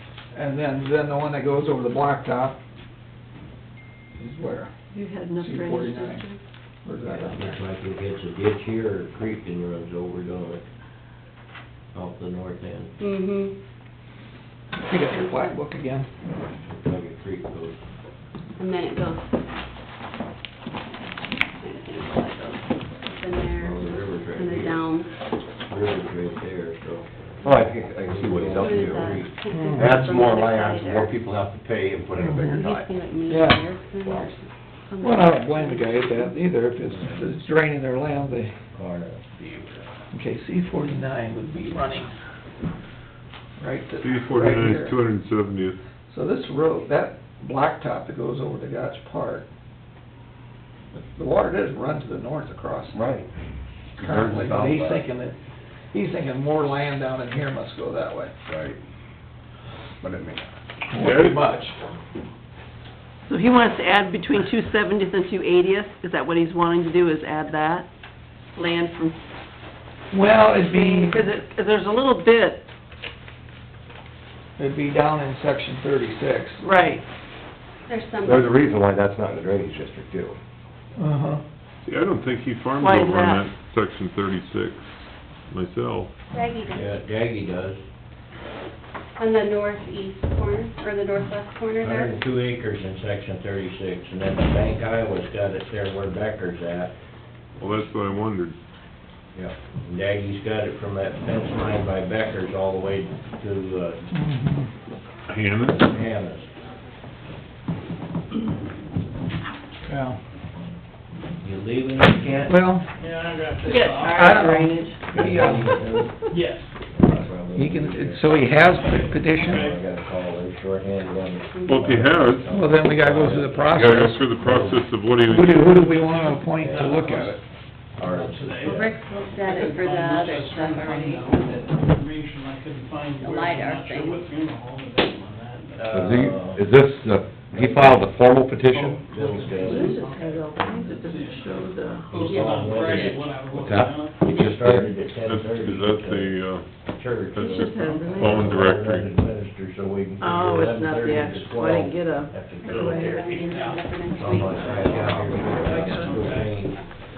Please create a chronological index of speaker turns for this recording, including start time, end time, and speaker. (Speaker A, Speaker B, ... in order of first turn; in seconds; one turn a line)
Speaker A: 0.3-2.6
Speaker A: 4.2-4.7
Speaker B: 4.9-6.4
Speaker A: 5.4-6.2
Speaker A: 6.8-7.5
Speaker C: 7.1-10.6
Speaker C: 11.9-13.0
Speaker D: 13.0-13.6
Speaker A: 14.8-16.1
Speaker D: 15.1-15.6
Speaker C: 16.6-17.8
Speaker D: 18.6-19.3
Speaker D: 21.6-25.1
Speaker C: 23.6-24.9
Speaker C: 25.7-29.3
Speaker E: 27.4-32.9
Speaker D: 28.6-31.2
Speaker A: 29.5-30.1
Speaker A: 32.2-32.6
Speaker D: 32.5-36.3
Speaker A: 33.3-33.6
Speaker A: 35.0-38.5
Speaker C: 36.9-37.3
Speaker C: 38.7-39.8
Speaker A: 40.1-42.1
Speaker A: 43.6-45.0
Speaker F: 44.0-45.8
Speaker A: 46.1-49.5
Speaker A: 50.9-53.0
Speaker E: 52.9-53.3
Speaker E: 54.0-55.0
Speaker A: 54.0-55.4
Speaker A: 55.9-58.3
Speaker E: 58.5-58.8
Speaker E: 60.0-60.5
Speaker A: 60.9-61.8
Speaker F: 61.0-61.4
Speaker B: 63.3-67.9
Speaker B: 68.6-69.2
Speaker A: 70.1-71.2
Speaker B: 70.7-72.7
Speaker A: 74.6-76.6
Speaker B: 76.6-77.0
Speaker D: 77.9-78.5
Speaker E: 78.2-80.4
Speaker A: 81.0-81.4
Speaker F: 81.8-85.0
Speaker B: 82.8-83.5
Speaker F: 85.5-86.1
Speaker D: 86.3-87.0
Speaker C: 86.7-87.8
Speaker D: 89.2-92.1
Speaker C: 91.8-96.9
Speaker F: 97.6-98.6
Speaker C: 99.3-104.1
Speaker A: 104.1-104.7
Speaker F: 105.3-105.8
Speaker C: 105.8-106.5
Speaker A: 109.9-110.2
Speaker C: 111.4-112.6
Speaker A: 112.5-112.9
Speaker G: 113.0-114.5
Speaker B: 113.6-115.0
Speaker A: 114.1-115.8
Speaker C: 115.1-116.3
Speaker G: 115.3-115.7
Speaker G: 116.3-116.7
Speaker C: 116.9-118.7
Speaker A: 117.5-119.7
Speaker G: 118.8-119.8
Speaker C: 119.3-124.8
Speaker D: 121.5-121.8
Speaker F: 121.7-122.6
Speaker A: 122.5-127.4
Speaker F: 123.7-125.9
Speaker G: 125.7-127.4
Speaker C: 126.5-127.2
Speaker C: 128.0-129.0
Speaker G: 128.0-136.3
Speaker D: 128.6-131.4
Speaker D: 133.2-134.2
Speaker C: 135.8-136.7
Speaker E: 135.9-139.0
Speaker C: 137.5-138.1
Speaker G: 138.7-144.3
Speaker C: 139.1-140.0
Speaker B: 139.7-142.2
Speaker C: 142.1-143.3
Speaker D: 142.3-143.0
Speaker E: 143.5-144.9
Speaker C: 144.3-153.4
Speaker F: 145.2-146.7
Speaker F: 147.3-149.1
Speaker B: 147.5-148.6
Speaker B: 150.2-153.2
Speaker D: 152.7-155.7
Speaker F: 152.7-153.0
Speaker G: 153.2-156.6
Speaker C: 154.1-156.9
Speaker B: 155.7-156.2